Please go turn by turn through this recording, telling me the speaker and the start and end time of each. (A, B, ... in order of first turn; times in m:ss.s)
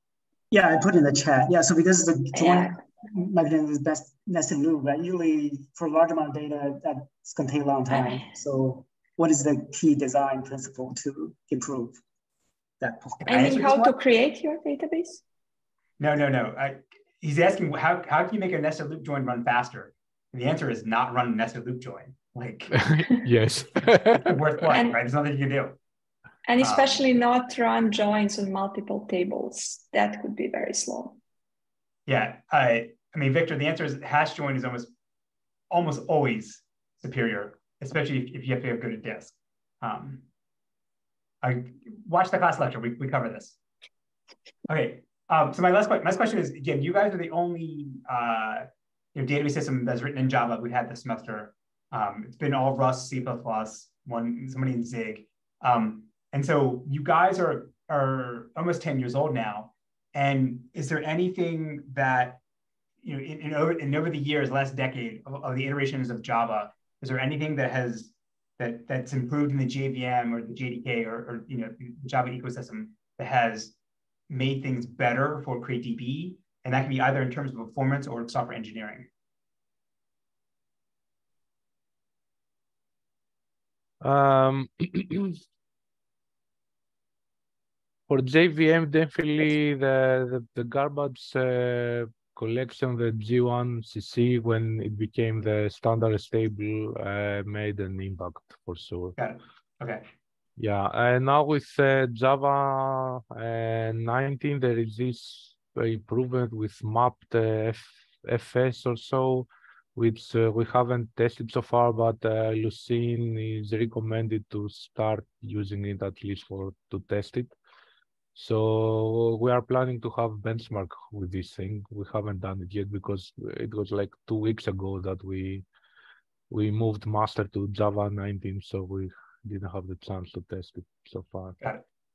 0:00.5-0:12.0 A
0:02.3-0:02.7 B
0:12.8-0:13.2 A
0:13.2-0:13.9 C
0:13.3-0:15.2 B
0:16.0-0:22.8 C
0:22.7-0:24.5 D
0:24.2-0:25.8 C
0:24.7-0:25.0 B
0:26.4-0:31.2 B
0:26.6-0:27.0 C
0:32.1-0:34.9 C
0:35.7-0:40.2 C
0:41.4-0:43.6 C
0:44.7-1:02.4 C
1:03.0-1:13.7 C
1:14.3-1:19.1 C
1:24.0-1:25.4 D
1:28.1-1:39.2 D
1:39.2-1:40.0 C
1:40.6-1:57.5 D
1:58.3-2:05.6 D
2:06.5-2:11.6 D